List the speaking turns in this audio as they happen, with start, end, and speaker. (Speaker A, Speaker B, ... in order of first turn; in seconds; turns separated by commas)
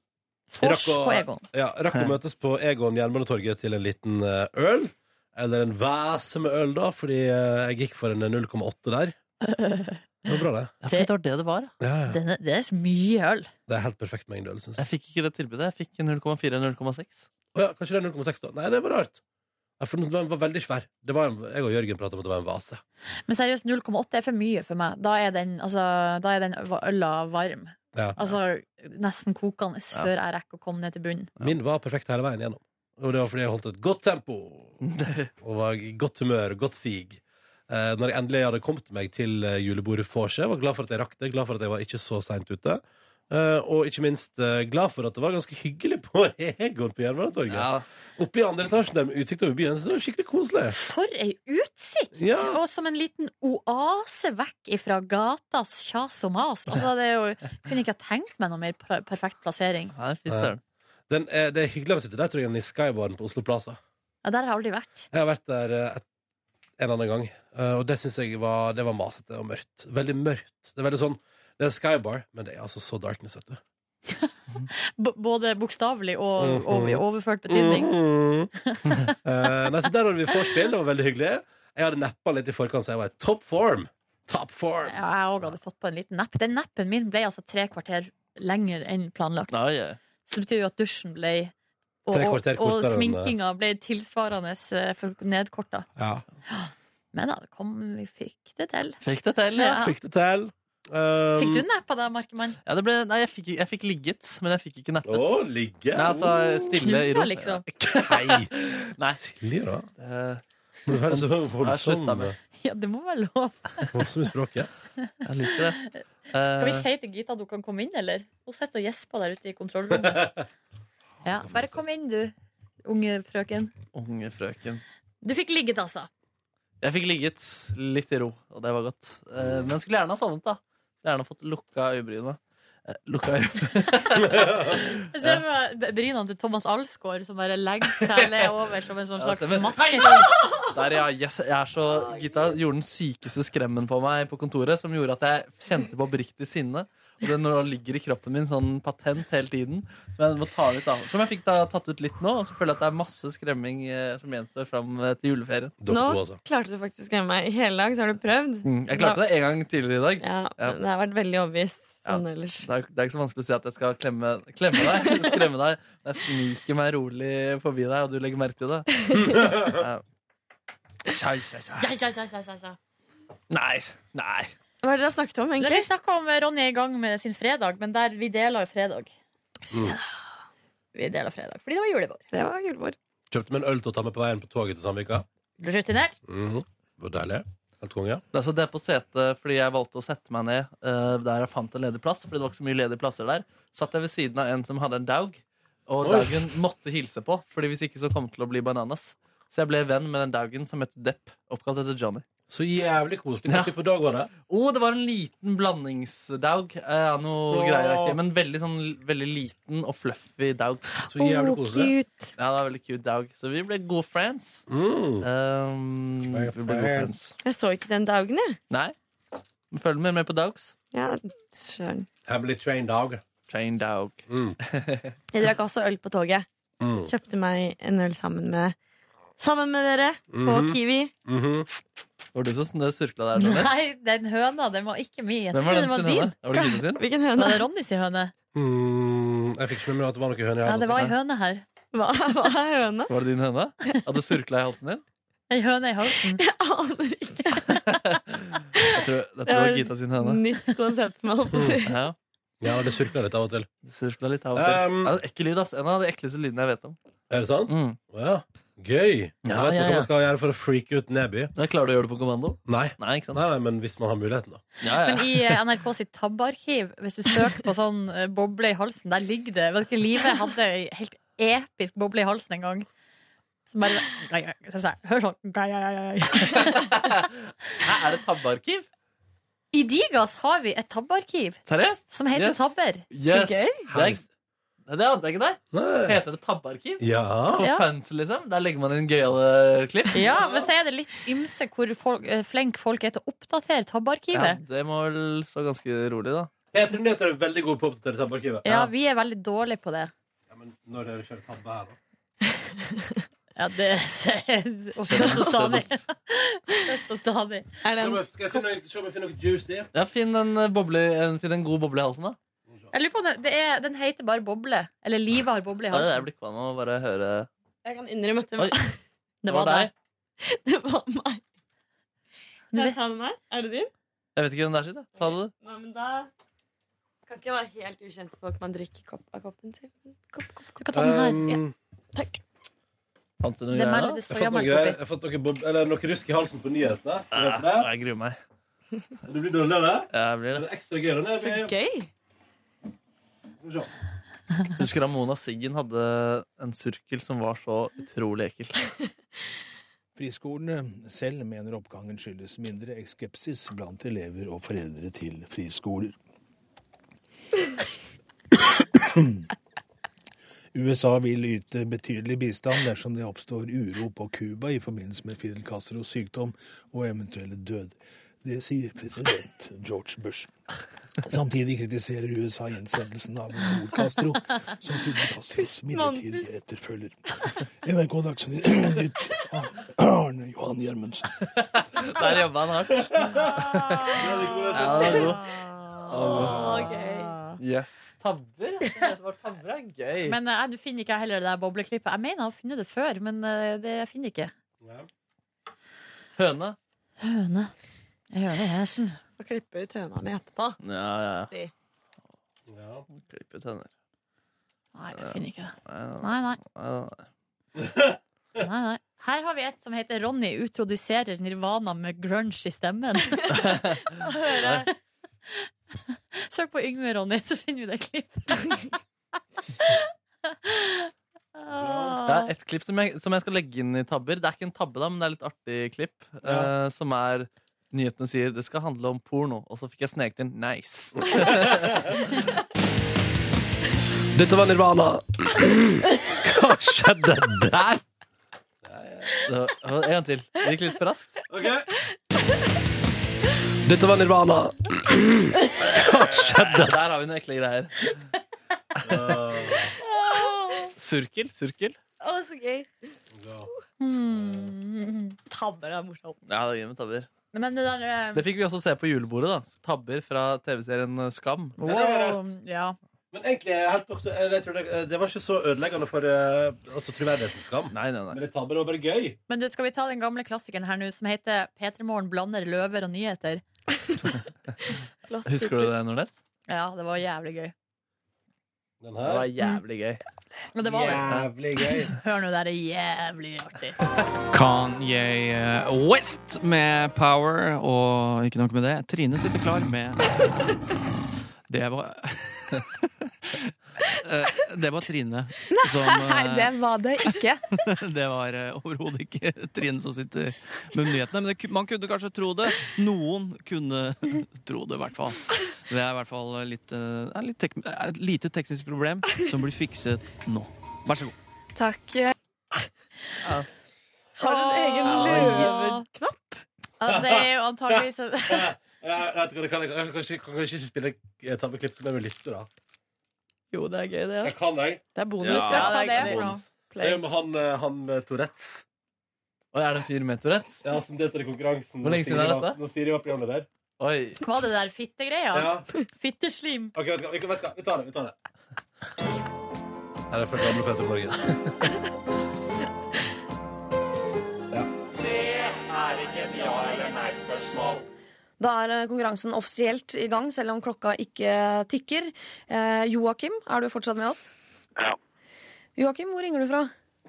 Speaker A: 0.5-1.4, Speaker B: 0.6-9.2, Speaker A: 9.4-10.0, Speaker B: 10.3-10.7, Speaker C: 10.8-11.7, Speaker B: 11.8-12.2, Speaker A: 12.1-13.5, Speaker B: 13.7-14.8, Speaker C: 14.8-17.3, Speaker B: 17.6-19.2, Speaker B: 19.8-22.8, Speaker A: 23.3-31.3, Speaker B: 31.4-34.8, Speaker C: 34.8-35.3, Speaker B: 35.4-50.8, Speaker C: 47.5-47.8, Speaker A: 50.8-59.9, Speaker B: 52.1-52.6, Speaker C: 60.0-60.6, Speaker B: 61.1-63.8, Speaker A: 64.2-65.1, Speaker B: 65.1-66.0, Speaker B: 66.8-73.6, Speaker A: 74.2-77.9, Speaker B: 76.4-78.5, Speaker A: 78.6-79.2, Speaker B: 79.2-84.9, Speaker A: 84.9-89.6, Speaker C: 89.5-90.0, Speaker A: 90.3-91.5, Speaker A: 92.0-95.9, Speaker B: 92.1-93.3, Speaker B: 96.0-96.2, Speaker A: 96.5-99.0, Speaker C: 99.0-99.8, Speaker A: 99.5-99.9, Speaker B: 99.7-101.6, Speaker A: 101.4-102.6, Speaker C: 102.7-109.2, Speaker B: 105.0-106.4, Speaker A: 106.8-107.6, Speaker B: 107.9-108.5, Speaker B: 109.1-109.9, Speaker C: 110.0-112.3, Speaker B: 110.9-112.4, Speaker A: 112.6-113.9, Speaker B: 113.9-114.7, Speaker C: 115.2-116.9, Speaker A: 116.4-120.3, Speaker B: 120.0-120.4, Speaker A: 121.2-122.3, Speaker A: 122.8-123.7, Speaker C: 123.9-124.8, Speaker A: 125.2-126.1, Speaker C: 126.8-135.4, Speaker B: 129.4-129.7, Speaker B: 134.3-134.6, Speaker A: 135.1-140.2, Speaker C: 138.1-138.5, Speaker C: 139.2-155.8, Speaker D: 141.9-142.5, Speaker B: 155.8-156.4, Speaker D: 155.8-159.2, Speaker C: 158.6-160.8, Speaker D: 160.2-162.7, Speaker C: 162.1-169.1, Speaker D: 164.9-165.4, Speaker B: 169.1-169.8, Speaker C: 169.6-170.0, Speaker C: 171.1-171.9, Speaker A: 171.8-172.8, Speaker C: 173.5-174.5, Speaker D: 174.8-175.9, Speaker A: 175.6-179.1, Speaker A: 180.9-182.2, Speaker D: 182.3-182.9, Speaker B: 183.3-185.2, Speaker A: 185.6-186.2, Speaker B: 186.2-188.2, Speaker C: 188.3-202.2, Speaker B: 196.0-196.4, Speaker B: 202.5-204.3, Speaker C: 203.5-203.7, Speaker C: 204.5-210.9, Speaker B: 207.5-208.2, Speaker B: 211.1-211.9, Speaker D: 211.2-212.3, Speaker C: 212.4-214.7, Speaker B: 214.7-215.2, Speaker C: 215.2-217.3, Speaker B: 216.3-217.1, Speaker D: 217.4-218.6, Speaker C: 219.7-220.7, Speaker D: 220.9-222.1, Speaker B: 222.3-223.2, Speaker C: 223.5-225.1, Speaker B: 224.3-224.6, Speaker D: 225.3-226.4, Speaker B: 226.8-227.1, Speaker D: 227.0-228.8, Speaker D: 229.4-231.1, Speaker B: 230.3-231.7, Speaker C: 232.3-233.7, Speaker A: 233.4-236.3, Speaker C: 235.5-237.0, Speaker D: 236.6-237.6, Speaker A: 237.4-238.3, Speaker B: 238.5-241.1, Speaker A: 240.7-241.6, Speaker D: 241.9-243.1, Speaker C: 243.1-245.0, Speaker A: 245.5-246.4, Speaker D: 246.3-247.8, Speaker C: 247.9-250.4, Speaker D: 249.4-252.0, Speaker B: 251.5-251.8, Speaker C: 251.8-252.1, Speaker B: 252.6-253.7, Speaker C: 253.8-256.9, Speaker B: 254.6-255.1, Speaker B: 257.3-261.5, Speaker C: 257.7-258.0, Speaker C: 259.4-260.1, Speaker C: 261.6-263.4, Speaker B: 262.7-264.6, Speaker C: 264.8-265.6, Speaker A: 265.0-272.9, Speaker A: 273.7-277.0, Speaker C: 276.4-278.9, Speaker A: 279.7-283.1, Speaker C: 281.6-284.2, Speaker D: 283.3-283.8, Speaker B: 283.9-284.2, Speaker C: 284.9-290.3, Speaker B: 285.7-286.2, Speaker B: 287.0-287.6, Speaker A: 290.1-294.6, Speaker C: 294.3-296.5, Speaker B: 296.7-298.9, Speaker A: 298.6-300.1, Speaker B: 300.5-302.0, Speaker A: 303.6-307.8, Speaker C: 305.1-305.7, Speaker D: 305.1-305.6, Speaker D: 307.8-308.2, Speaker B: 307.9-309.9, Speaker C: 309.9-312.4, Speaker A: 312.9-316.2, Speaker C: 315.9-317.5, Speaker D: 317.8-319.0, Speaker A: 319.4-319.9, Speaker C: 319.5-319.9, Speaker D: 320.4-321.4, Speaker D: 322.7-323.9, Speaker C: 324.4-325.5, Speaker D: 325.1-326.3, Speaker D: 327.2-330.7, Speaker A: 330.8-331.6, Speaker B: 330.9-331.7, Speaker D: 332.1-332.4, Speaker C: 333.4-334.2, Speaker A: 333.7-335.0, Speaker B: 334.3-337.9, Speaker C: 337.3-338.4, Speaker B: 339.2-341.7, Speaker C: 340.1-340.6, Speaker D: 341.3-342.1, Speaker B: 343.6-343.9, Speaker C: 344.8-348.8, Speaker E: 350.1-356.1, Speaker E: 359.0-359.4, Speaker E: 360.7-370.5, Speaker E: 371.2-377.2, Speaker D: 375.5-376.6, Speaker E: 377.8-381.3, Speaker C: 381.6-384.2, Speaker B: 383.1-383.5, Speaker B: 384.1-385.4, Speaker D: 384.6-385.3, Speaker C: 384.7-385.5, Speaker D: 386.0-387.4, Speaker C: 386.1-386.9, Speaker B: 386.2-386.8, Speaker A: 387.1-387.5, Speaker C: 387.6-390.4, Speaker A: 390.2-394.5, Speaker B: 394.8-395.1, Speaker C: 396.4-396.8, Speaker A: 397.2-397.7, Speaker A: 398.3-399.2, Speaker D: 399.4-400.8, Speaker C: 400.8-401.5, Speaker B: 402.7-403.1, Speaker C: 403.1-403.9, Speaker A: 404.9-406.6, Speaker C: 405.1-407.2, Speaker B: 407.8-408.2, Speaker A: 408.6-413.6, Speaker C: 413.5-414.0, Speaker D: 414.2-414.9, Speaker C: 414.6-414.8, Speaker A: 416.3-418.8, Speaker A: 419.8-422.5, Speaker B: 421.7-422.2, Speaker C: 422.2-432.4, Speaker B: 426.4-426.7, Speaker B: 431.3-432.1, Speaker B: 434.3-438.0, Speaker B: 438.8-439.3, Speaker C: 439.4-441.4, Speaker B: 441.5-441.9, Speaker B: 443.8-447.0, Speaker C: 446.3-448.1, Speaker B: 449.0-449.9, Speaker A: 450.2-450.9, Speaker C: 451.0-452.0, Speaker D: 452.2-452.9, Speaker B: 453.3-453.7, Speaker A: 454.0-456.1, Speaker B: 454.3-454.7, Speaker D: 455.5-456.3, Speaker C: 456.5-457.3, Speaker A: 457.5-458.4, Speaker C: 458.3-461.8, Speaker A: 461.8-463.0, Speaker B: 461.8-462.5, Speaker B: 463.3-469.4, Speaker C: 467.9-468.4, Speaker A: 469.5-473.6, Speaker D: 475.2-475.9, Speaker C: 475.4-476.4, Speaker A: 476.7-477.7, Speaker B: 479.0-479.5, Speaker C: 479.2-480.2, Speaker A: 480.7-481.3, Speaker B: 480.8-482.1, Speaker A: 482.1-483.9, Speaker F: 484.5-490.2, Speaker F: 491.7-493.0, Speaker F: 494.2-496.8, Speaker D: 495.9-497.6, Speaker F: 497.7-511.3, Speaker D: 511.8-512.3, Speaker D: 514.4-516.6, Speaker A: 514.4-516.0, Speaker C: 515.0-515.7, Speaker A: 517.0-518.7, Speaker B: 517.0-522.7, Speaker D: 523.7-524.5, Speaker B: 524.4-525.0, Speaker D: 525.1-527.2, Speaker C: 525.4-526.5, Speaker A: 525.5-526.6, Speaker B: 527.0-528.8, Speaker C: 529.7-530.8, Speaker B: 530.8-533.7, Speaker C: 532.0-532.8, Speaker C: 534.0-534.4, Speaker A: 534.4-536.9, Speaker B: 535.5-535.8, Speaker B: 536.9-538.3, Speaker B: 540.3-541.4, Speaker G: 548.6-554.5, Speaker G: 556.0-556.9